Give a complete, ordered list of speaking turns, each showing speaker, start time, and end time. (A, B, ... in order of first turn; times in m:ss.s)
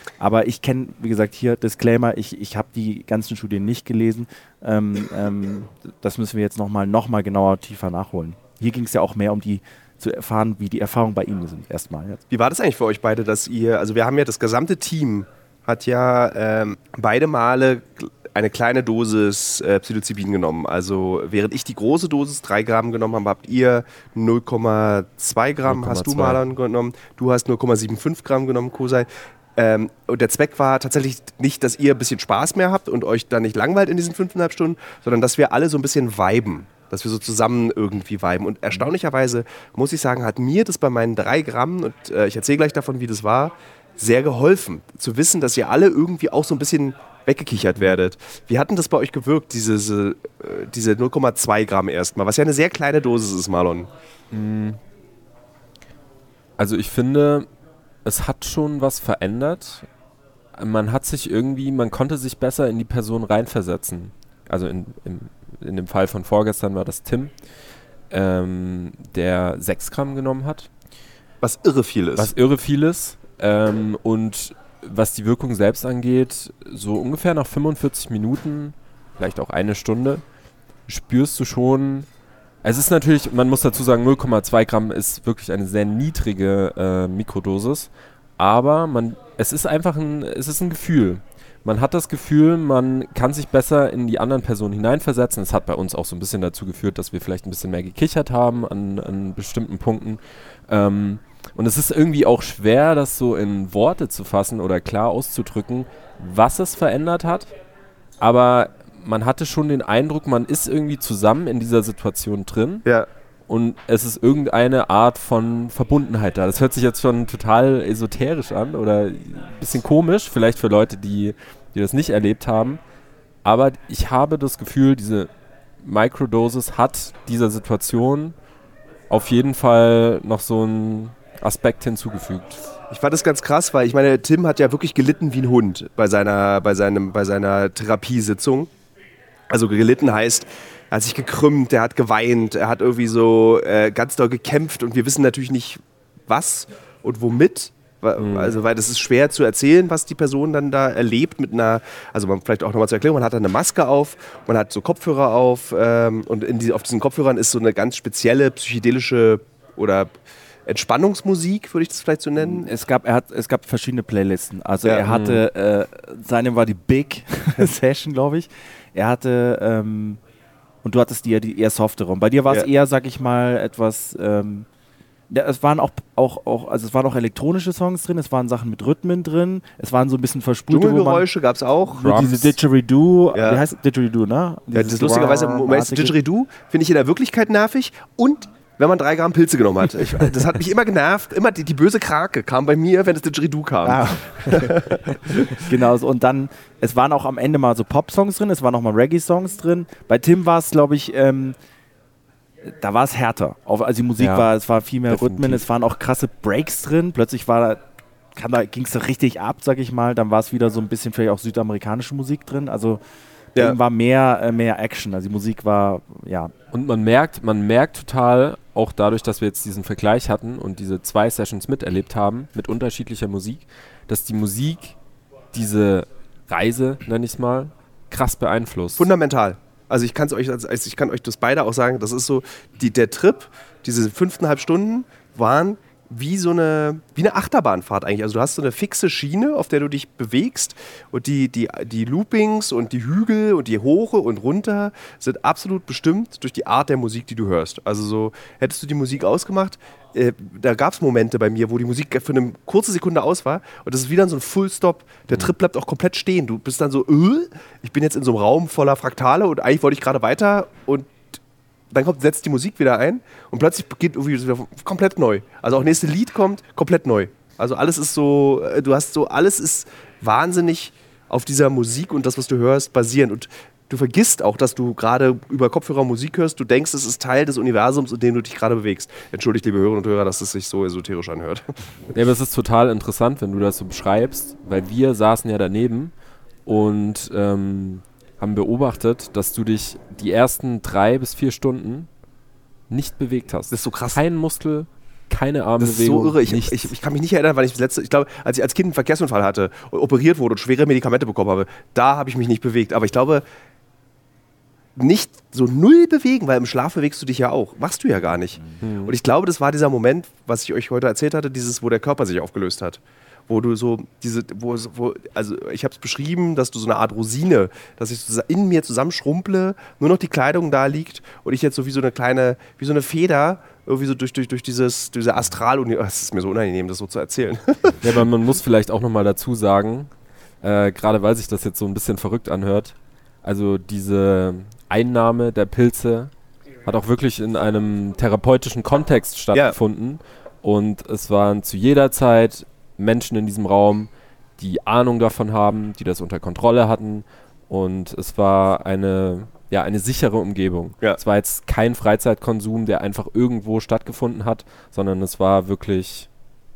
0:00.2-0:12.2 A
0:12.3-0:53.9 B
0:25.7-0:26.4 C
0:54.3-0:54.8 C
0:56.6-0:57.5 C
0:58.0-0:59.9 C
1:00.6-1:07.3 C
1:08.1-1:10.7 C
1:11.4-1:12.3 B
1:12.2-1:20.2 C
1:20.9-1:22.1 C
1:22.6-1:47.5 C
1:48.2-1:52.9 C
1:53.5-2:02.8 C
2:03.4-2:05.3 C
2:05.8-2:08.3 C
2:09.1-2:12.7 C
2:12.9-2:18.7 B
2:19.5-2:40.1 B
2:28.2-2:28.5 C
2:40.7-2:42.7 B
2:42.4-2:50.2 A
2:45.1-2:45.4 C
2:50.8-2:54.7 A
2:55.3-3:01.3 A
3:00.7-3:02.1 B
3:01.9-3:06.2 A
3:02.0-3:02.6 C
3:03.3-3:03.6 B
3:04.7-3:15.7 B
3:13.8-3:21.6 A
3:22.6-3:33.0 A
3:24.2-3:24.5 C
3:25.1-3:25.6 C
3:33.6-3:36.5 A
3:36.7-3:45.0 C
3:45.5-3:49.1 C
3:49.0-4:21.1 B
4:21.9-4:41.7 B
4:42.1-4:46.1 C
4:46.7-4:52.1 C
4:52.9-4:56.9 C
4:53.7-4:54.2 B
4:55.8-5:03.4 B
5:05.0-5:28.2 B
5:08.8-5:09.2 C
5:28.0-5:30.1 C
5:30.6-5:36.3 C
5:36.8-5:56.3 C